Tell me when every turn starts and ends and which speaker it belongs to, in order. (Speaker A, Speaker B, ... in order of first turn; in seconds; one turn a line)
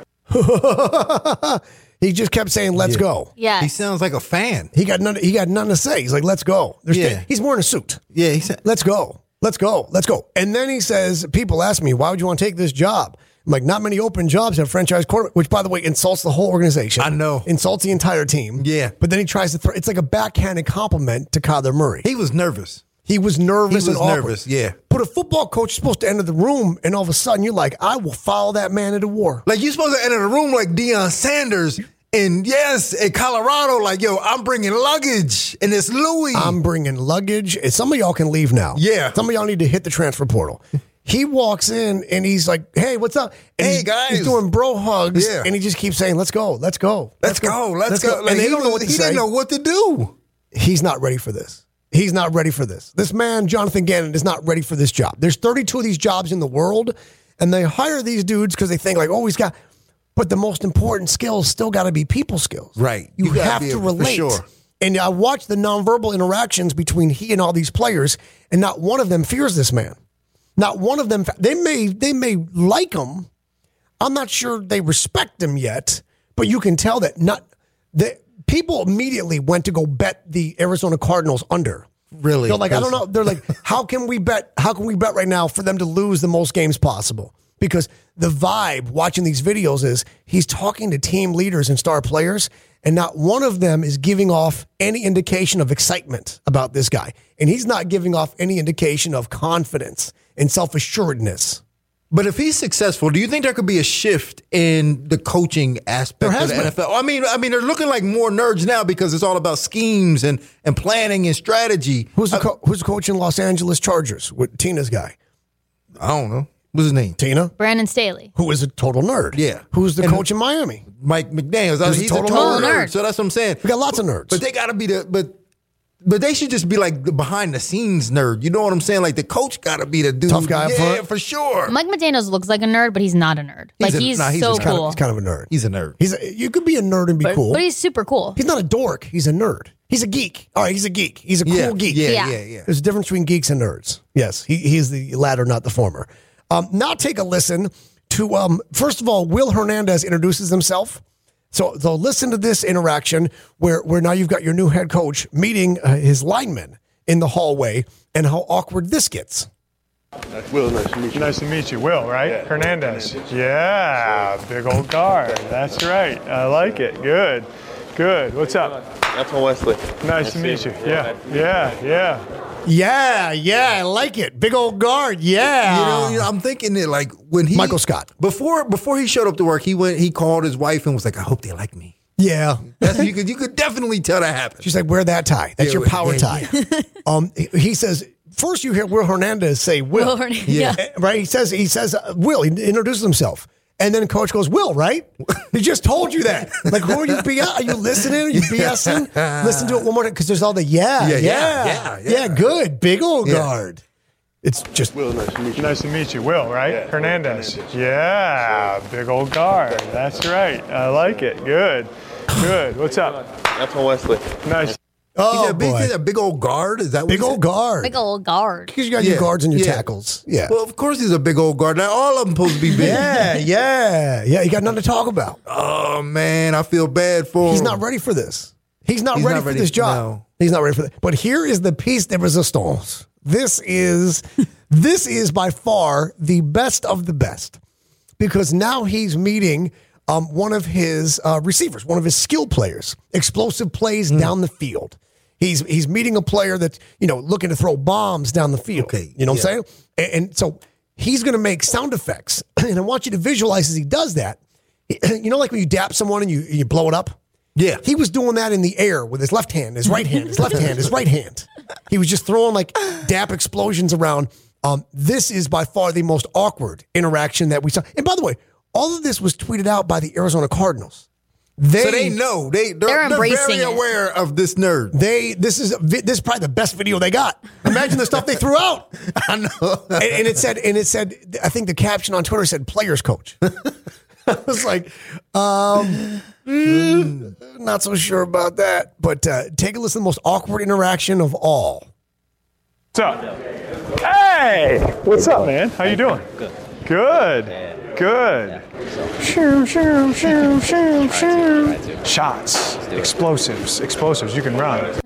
Speaker A: 0.3-3.3
Speaker B: 2.8-3.0
Speaker C: 3.4-3.7
Speaker B: 3.6-4.7
Speaker A: 4.7-8.0
Speaker B: 6.9-7.2
Speaker B: 8.1-8.6
Speaker A: 8.6-22.1
Speaker B: 17.0-17.5
Speaker B: 18.6-18.9
Speaker B: 22.0-22.8
Speaker A: 23.1-24.4
Speaker B: 23.7-24.8
Speaker A: 24.9-29.4
Speaker B: 29.5-36.6
Speaker A: 36.3-49.2
Speaker B: 38.8-39.2
Speaker B: 43.6-44.4
Speaker B: 45.1-45.5
Speaker B: 47.2-50.1
Speaker A: 50.5-59.5
Speaker A: 60.2-70.0
Speaker B: 62.8-64.5
Speaker A: 70.6-73.3
Speaker A: 74.0-81.9
Speaker B: 82.1-83.0
Speaker A: 82.5-101.6
Speaker B: 102.1-112.4
Speaker A: 106.2-106.7
Speaker A: 112.2-115.2
Speaker B: 116.0-117.2
Speaker A: 117.2-117.5
Speaker C: 117.6-118.3
Speaker A: 118.3-120.8
Speaker B: 119.3-120.2
Speaker B: 121.0-125.4
Speaker A: 121.8-122.8
Speaker C: 122.3-123.0
Speaker A: 123.6-124.4
Speaker B: 126.0-131.7
Speaker A: 130.3-131.1
Speaker C: 131.7-135.0
Speaker B: 133.8-134.9
Speaker A: 134.5-137.6
Speaker B: 135.5-136.0
Speaker C: 137.2-138.4
Speaker A: 138.4-151.0
Speaker B: 141.4-142.7
Speaker C: 142.1-142.4
Speaker A: 151.5-159.5
Speaker D: 160.3-161.4
Speaker E: 161.1-168.8
Speaker D: 162.2-163.2
Speaker F: 169.1-170.3
Speaker E: 170.0-172.2
Speaker A: 172.7-176.3
Speaker B: 175.7-181.9
Speaker A: 177.5-178.1
Speaker A: 182.2-183.0
Speaker B: 182.8-184.7
Speaker A: 184.6-186.5
Speaker B: 185.6-186.5
Speaker C: 186.5-186.8
Speaker A: 187.1-190.2
Speaker C: 189.9-190.8
Speaker B: 190.5-190.8
Speaker A: 190.8-203.8
Speaker B: 196.6-197.2
Speaker B: 198.3-199.9
Speaker B: 201.0-202.4
Speaker B: 203.2-203.5
Speaker A: 204.4-204.9
Speaker D: 204.9-205.9
Speaker E: 205.6-213.2
Speaker D: 206.7-207.7
Speaker F: 213.5-214.8
Speaker E: 214.4-214.8
Speaker A: 215.2-215.9
Speaker B: 215.3-217.4
Speaker A: 217.1-218.0
Speaker C: 217.8-218.7
Speaker A: 218.7-220.6
Speaker B: 219.0-219.8
Speaker B: 220.5-223.2
Speaker A: 222.7-225.4
Speaker B: 225.5-227.8
Speaker A: 227.4-237.6
Speaker B: 229.1-230.2
Speaker A: 238.2-257.2
Speaker B: 248.8-249.5
Speaker B: 257.6-257.8
Speaker A: 257.8-271.1
Speaker A: 271.6-272.2
Speaker B: 271.8-274.9
Speaker C: 272.9-273.8
Speaker A: 274.9-283.4
Speaker B: 279.2-280.2
Speaker A: 284.3-286.1
Speaker B: 286.5-287.3
Speaker A: 286.6-291.9
Speaker E: 292.9-293.3
Speaker E: 294.0-296.3
Speaker E: 296.9-298.6
Speaker E: 299.2-304.9